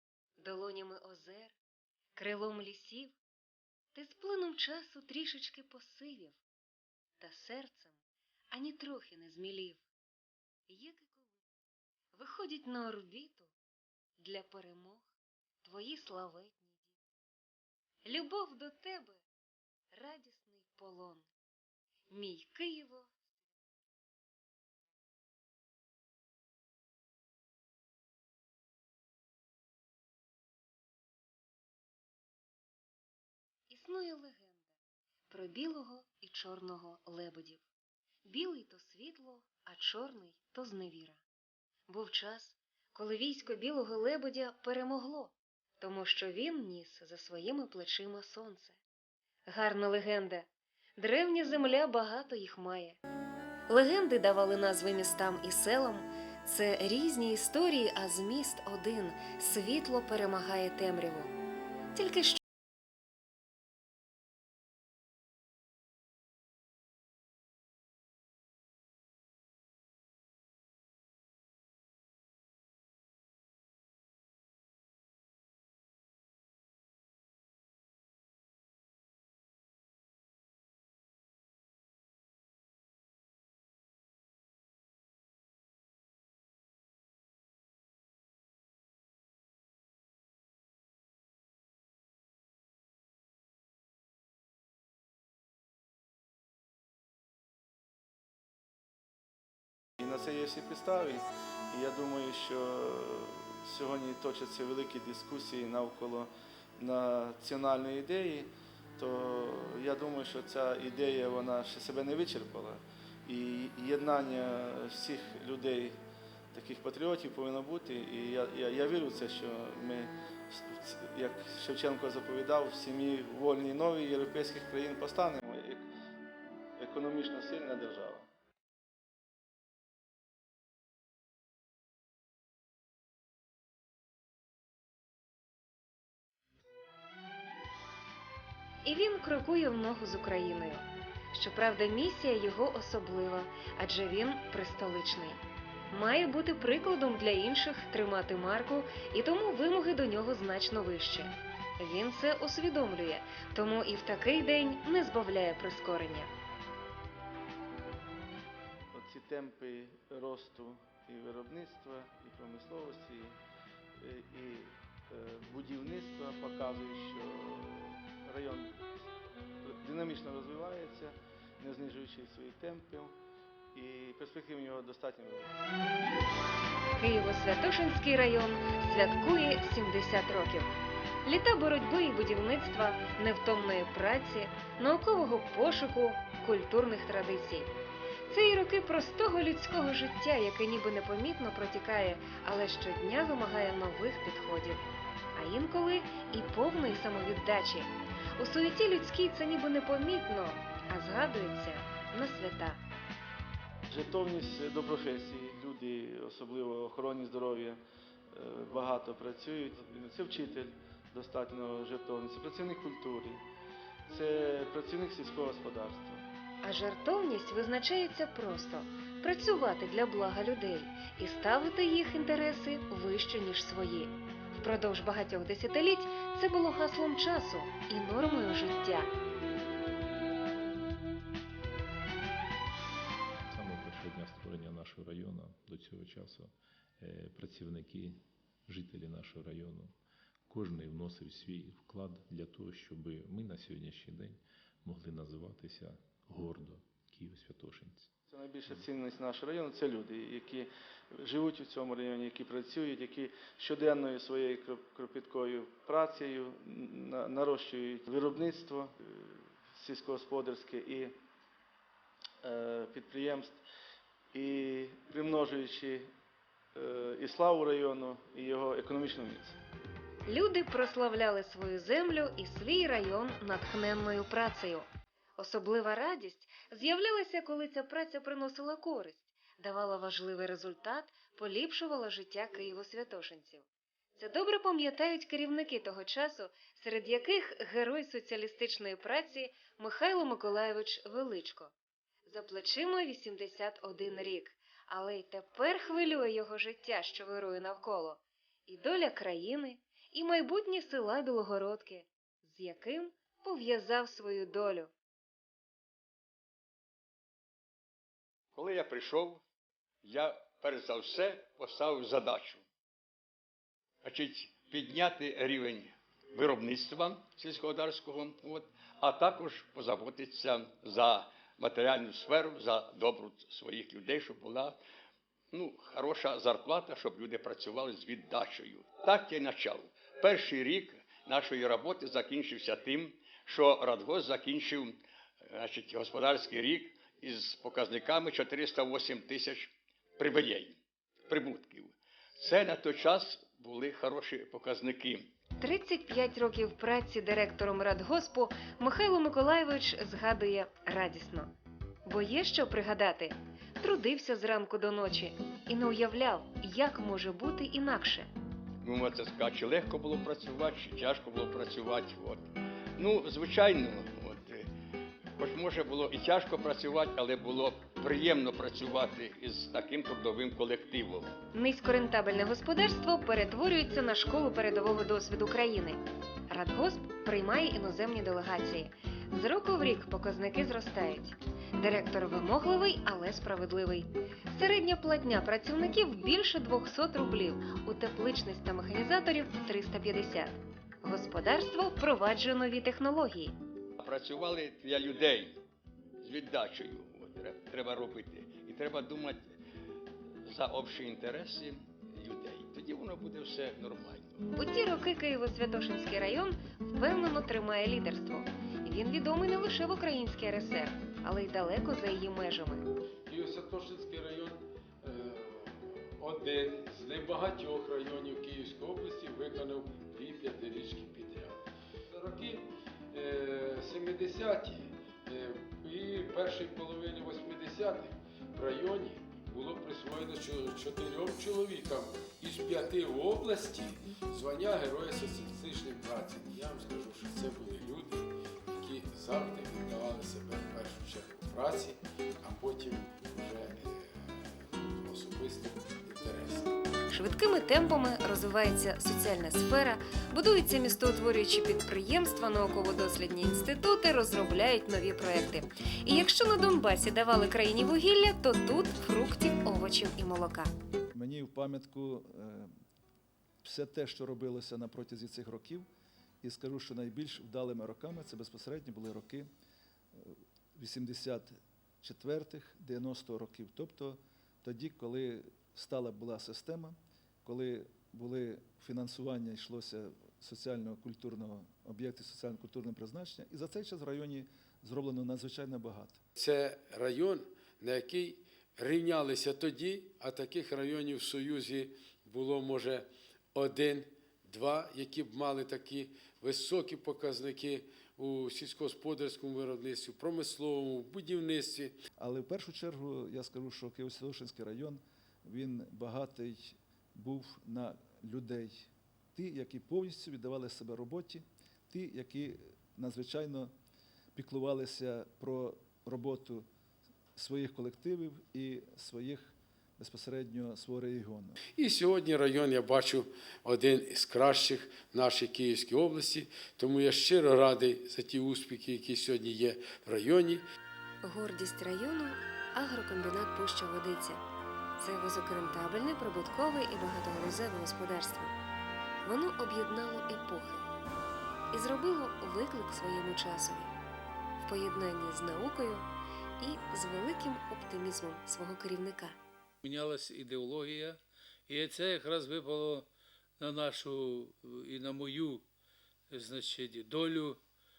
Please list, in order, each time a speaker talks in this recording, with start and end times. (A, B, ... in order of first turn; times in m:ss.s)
0:00.4-0:01.5 A
0:02.2-0:03.1 A
0:03.9-0:06.4 A
0:07.2-0:08.0 A
0:08.5-0:09.8 A
0:10.7-0:11.4 A
0:12.1-0:13.5 A
0:14.2-0:15.1 A
0:15.6-0:16.9 A
0:18.0-0:19.2 A
0:19.9-0:21.2 A
0:22.1-0:23.3 A
0:33.7-0:34.7 A
0:35.3-0:37.6 A
0:38.3-0:41.2 A
0:41.9-0:48.8 A
0:49.5-0:50.4 A
0:51.0-0:53.0 A
0:53.7-1:01.3 A
1:01.9-1:02.4 A
1:40.0-1:56.0 B
1:56.5-2:05.9 B
2:06.8-2:08.3 B
2:18.8-2:36.3 A
2:38.9-2:43.4 B
2:44.0-2:48.9 B
2:49.6-2:53.1 B
2:53.7-2:55.6 B
2:57.0-3:00.7 A
3:01.2-3:07.7 A
3:08.3-3:14.8 A
3:15.4-3:22.8 A
3:23.9-3:27.8 B
3:28.3-3:33.4 B
3:34.1-3:36.2 B
3:36.6-3:49.1 A
3:53.5-3:59.9 C
4:00.5-4:08.1 C
4:08.3-4:21.1 B
4:22.4-4:23.6 B
4:24.3-4:26.1 B
4:26.7-4:29.6 B
4:30.3-4:43.6 A
4:44.2-4:51.7 A
4:52.3-5:04.9 A
5:08.5-5:09.4 D
5:10.0-5:12.6 D
5:14.0-5:24.8 D
5:25.5-5:40.8 D
5:41.3-5:45.3 D
5:45.6-5:51.5 A
5:52.1-5:58.3 A
5:58.8-6:04.6 D
6:05.4-6:11.3 D
6:11.5-6:16.0 A
6:16.5-6:33.6 A
6:34.0-6:35.6 D
6:36.2-6:39.5 D
6:40.4-6:44.4 D
6:44.6-6:52.9 A
6:53.2-7:01.6 E
7:02.1-7:26.7 E
7:27.1-7:40.7 A
7:41.1-7:42.7 F
7:43.6-7:45.8 F
7:46.4-7:49.5 F
7:50.1-8:06.2 F
8:06.4-8:22.0 E
8:22.2-8:33.7 F
8:34.3-8:36.6 F
8:37.4-8:41.6 F
8:41.8-8:50.6 E
8:51.2-8:54.4 A
8:55.0-8:58.5 A
8:59.2-9:00.8 A
9:01.7-9:03.9 A
9:04.6-9:06.0 A
9:06.6-9:09.4 A
9:09.8-9:13.1 G
9:13.6-9:15.6 G
9:16.3-9:17.6 G